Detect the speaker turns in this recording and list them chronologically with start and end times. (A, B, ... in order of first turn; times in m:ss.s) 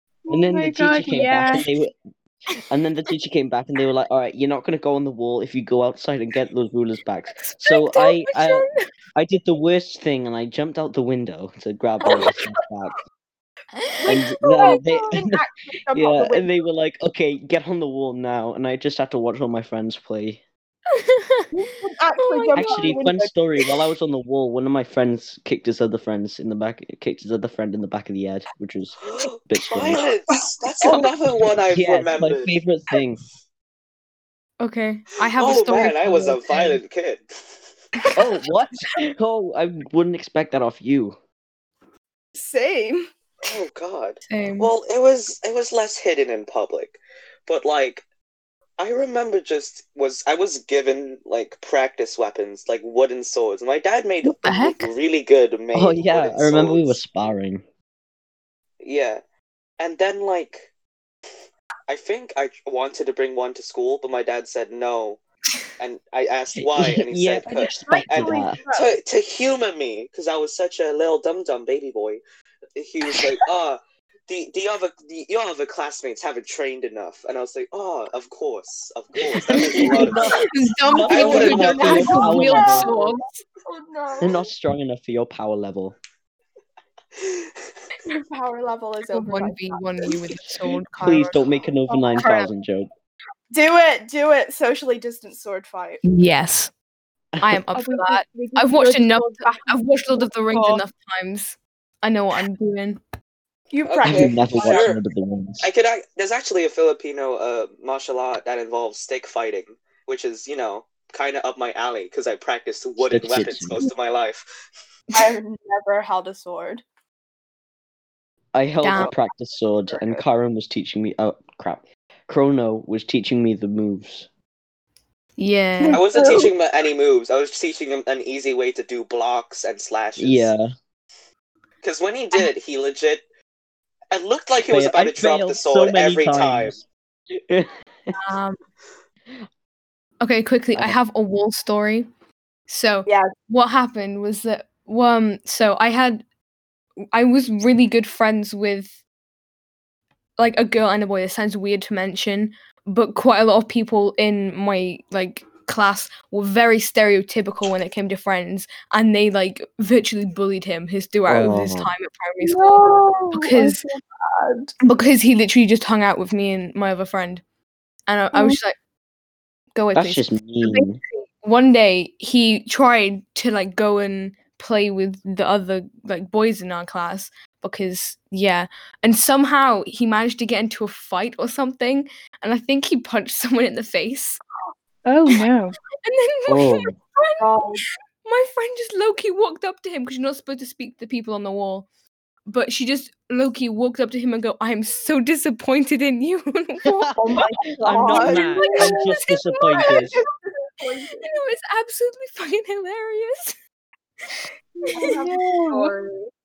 0:00.3-0:01.6 A
0:00.3-0:01.9 B
0:02.7-0:13.0 B
0:07.4-0:08.8 C
0:12.0-0:12.4 D
0:13.7-0:14.8 C
0:14.0-0:16.5 D
0:14.1-0:20.4 B
0:20.9-0:21.5 C
0:21.5-0:23.3 D
0:22.2-0:23.0 C
0:22.5-0:30.1 B
0:29.0-0:32.5 E
0:30.8-0:31.1 D
0:31.7-0:33.2 B
0:34.6-0:36.8 C
0:35.4-0:37.2 E
0:38.2-0:41.2 B
0:42.3-0:43.1 D
0:43.4-0:48.0 E
0:44.3-0:44.7 C
0:48.8-0:57.0 E
0:54.2-0:54.9 C
0:55.7-0:57.6 B
0:58.8-0:59.2 E
0:59.8-1:00.7 E
1:01.9-1:05.2 E
1:05.8-1:12.2 E
1:06.6-1:08.6 B
1:07.8-1:08.9 D
1:12.8-1:20.4 E
1:19.2-1:22.9 B
1:20.1-1:23.4 C
1:21.0-1:24.5 D
1:21.1-1:22.2 E
1:24.2-1:25.9 B
1:27.2-1:27.5 E
1:28.0-1:30.1 D
1:29.1-1:31.4 C
1:30.9-1:32.9 B
1:31.9-1:32.2 D
1:32.2-1:32.5 C
1:33.5-1:36.0 D
1:36.0-1:36.7 C
1:37.4-1:43.0 C
1:37.7-1:40.8 A
1:43.7-1:44.9 D
1:43.8-1:45.0 E
1:44.0-1:45.7 B
1:45.6-1:54.4 E
1:53.0-1:53.8 B
1:55.1-1:56.8 D
1:58.5-2:04.3 B
1:58.8-1:59.1 C
1:59.9-2:00.2 D
2:05.4-2:06.0 C
2:05.8-2:06.5 D
2:05.9-2:10.5 E
2:10.2-2:10.7 B
2:11.8-2:13.2 E
2:14.1-2:16.7 E
2:14.6-2:18.2 B
2:18.1-2:18.6 C
2:20.2-2:22.1 C
2:22.7-2:26.2 C
2:27.1-2:29.0 C
2:30.4-2:43.8 C
2:41.3-2:41.9 B
2:42.4-2:44.7 D
2:44.8-2:47.4 C
2:48.1-2:48.7 C
2:49.7-3:04.4 C
2:49.9-2:51.0 B
3:05.0-3:05.8 A
3:06.0-3:07.4 C
3:06.5-3:07.0 B
3:07.4-3:07.8 D
3:08.2-3:11.8 C
3:12.5-3:17.2 C
3:16.8-3:20.2 B
3:17.2-3:19.2 D
3:17.9-3:20.1 C
3:19.7-3:21.3 D
3:21.2-3:23.5 C
3:24.8-3:25.8 A
3:24.9-3:26.2 D